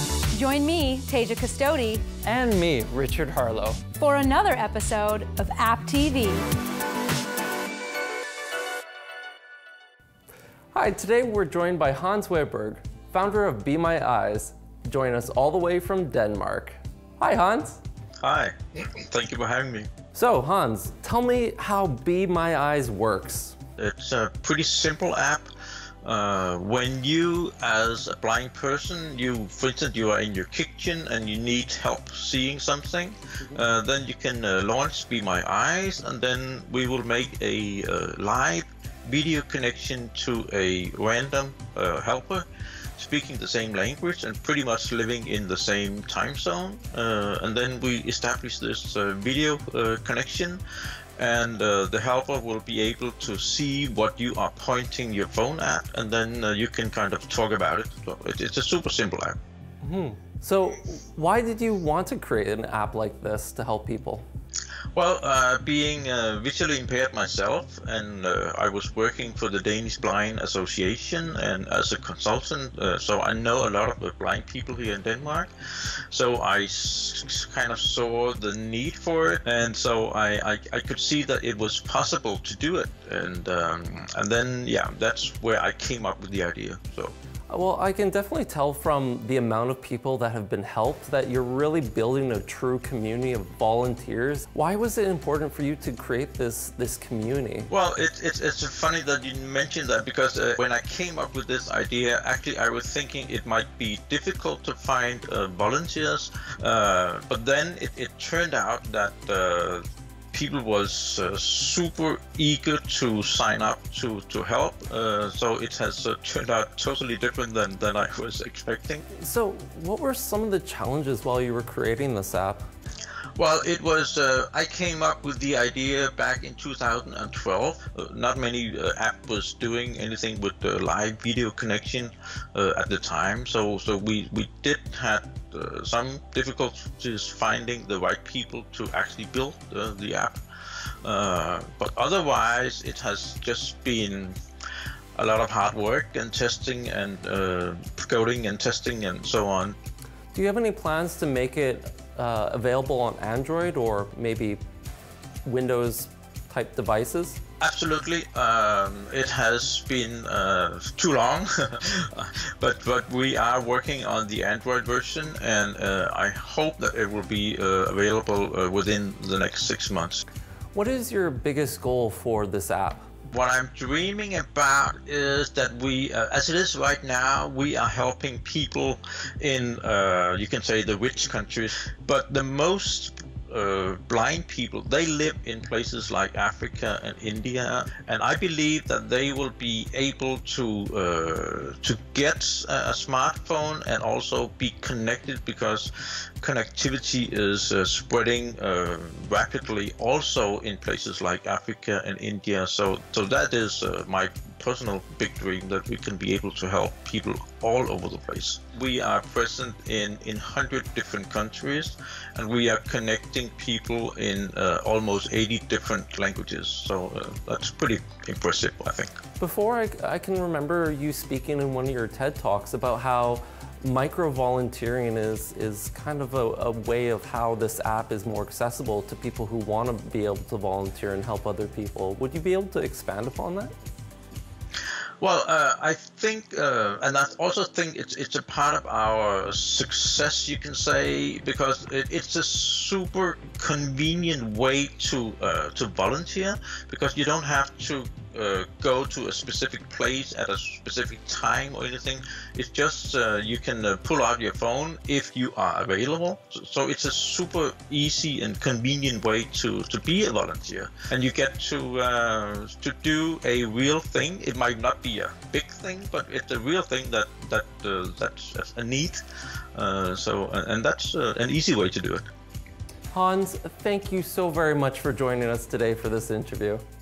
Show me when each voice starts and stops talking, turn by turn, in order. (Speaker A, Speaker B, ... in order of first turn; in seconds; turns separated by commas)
Speaker A: 0.3-2.0, Speaker B: 2.2-3.9, Speaker A: 4.0-6.4, Speaker B: 10.7-17.8, Speaker C: 18.2-19.9, Speaker B: 20.1-23.6, Speaker C: 23.8-25.5, Speaker C: 26.0-50.6, Speaker C: 51.2-59.4, Speaker B: 59.8-64.2, Speaker C: 64.9-87.1, Speaker B: 87.5-97.7, Speaker C: 97.7-119.1, Speaker B: 119.2-122.7, Speaker C: 123.4-140.4, Speaker C: 141.0-144.4, Speaker C: 145.2-149.8, Speaker B: 150.3-154.6, Speaker B: 155.4-157.4, Speaker C: 157.6-170.2, Speaker B: 170.7-173.1, Speaker C: 173.3-219.1, Speaker B: 219.4-233.7, Speaker C: 235.2-269.2, Speaker C: 269.7-272.2, Speaker B: 273.1-276.8